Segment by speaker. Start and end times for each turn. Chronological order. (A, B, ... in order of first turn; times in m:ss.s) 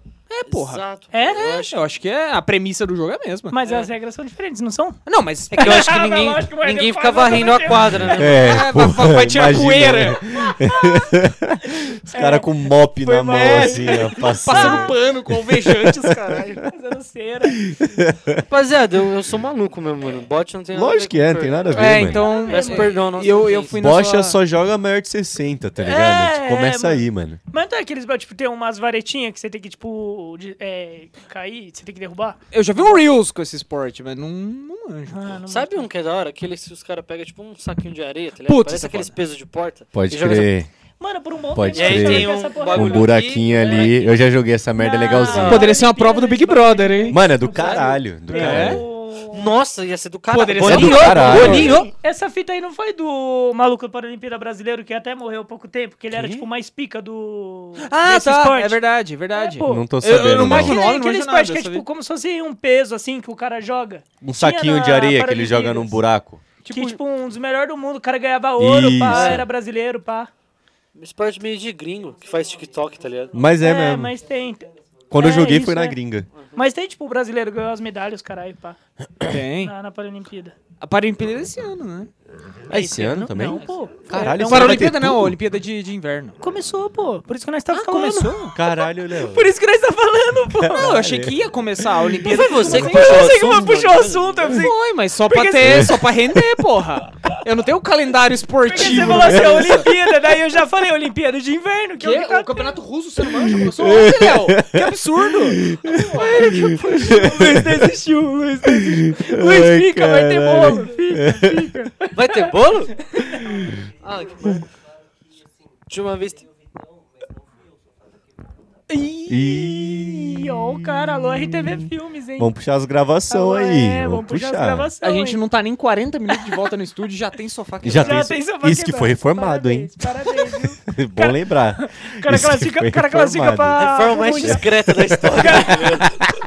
0:00.3-0:03.6 A
0:00.5-0:01.8 B
0:01.1-0:01.5 C
0:03.5-0:05.0 C
0:05.1-0:06.1 A
0:05.5-0:08.6 B
0:05.5-0:08.3 C
0:08.1-0:15.0 D
0:08.2-0:10.2 A
0:10.5-0:11.1 C
0:12.1-0:15.0 C
0:13.3-0:16.6 A
0:15.5-0:16.5 D
0:16.6-0:17.7 C
0:17.6-0:18.4 D
0:18.5-0:23.8 B
0:20.7-0:22.2 D
0:21.7-0:24.4 A
0:22.1-0:23.0 C
0:23.8-0:27.4 D
0:25.8-0:32.4 C
0:32.5-0:35.4 A
0:35.1-0:35.9 C
0:35.5-0:40.6 B
0:38.5-0:39.2 A
0:39.9-0:40.7 D
0:41.0-0:43.2 C
0:41.6-0:45.7 D
0:41.7-0:44.2 B
0:44.8-0:49.5 C
0:45.1-0:45.7 B
0:45.4-0:47.2 A
0:47.1-0:48.8 D
0:48.3-0:48.8 A
0:49.3-0:51.9 B
0:50.3-0:51.9 A
0:50.6-0:51.8 D
0:51.1-0:58.8 C
0:56.1-0:56.4 A
0:57.8-1:01.8 A
0:59.3-1:06.0 C
0:59.6-1:00.8 D
1:04.2-1:06.4 D
1:06.6-1:07.0 A
1:06.7-1:10.3 C
1:08.6-1:09.5 D
1:09.1-1:09.4 B
1:11.0-1:13.4 B
1:13.3-1:14.1 D
1:13.6-1:16.0 C
1:15.1-1:16.3 D
1:16.6-1:18.8 C
1:19.2-1:19.7 A
1:19.6-1:20.6 C
1:20.8-1:22.1 A
1:22.7-1:25.4 D
1:22.7-1:24.8 C
1:24.1-1:26.4 A
1:26.4-1:31.0 C
1:27.7-1:28.6 A
1:28.5-1:29.5 D
1:30.6-1:31.4 D
1:30.7-1:33.6 A
1:32.2-1:34.8 C
1:32.2-1:34.6 B
1:34.5-1:39.9 A
1:35.3-1:36.0 C
1:35.6-1:36.1 D
1:38.7-1:42.8 C
1:38.8-1:39.9 D
1:42.0-1:46.6 A
1:43.4-1:47.9 D
1:46.0-1:52.6 C
1:48.7-1:51.8 D
1:52.1-1:53.1 B
1:53.1-1:53.6 C
1:54.0-1:54.6 B
1:55.9-1:56.5 B
1:58.9-2:02.5 C
1:59.3-2:01.9 D
2:02.4-2:04.9 D
2:03.3-2:05.4 C
2:05.0-2:08.4 A
2:07.8-2:16.3 D
2:08.0-2:14.7 C
2:13.7-2:16.3 B
2:15.3-2:16.1 C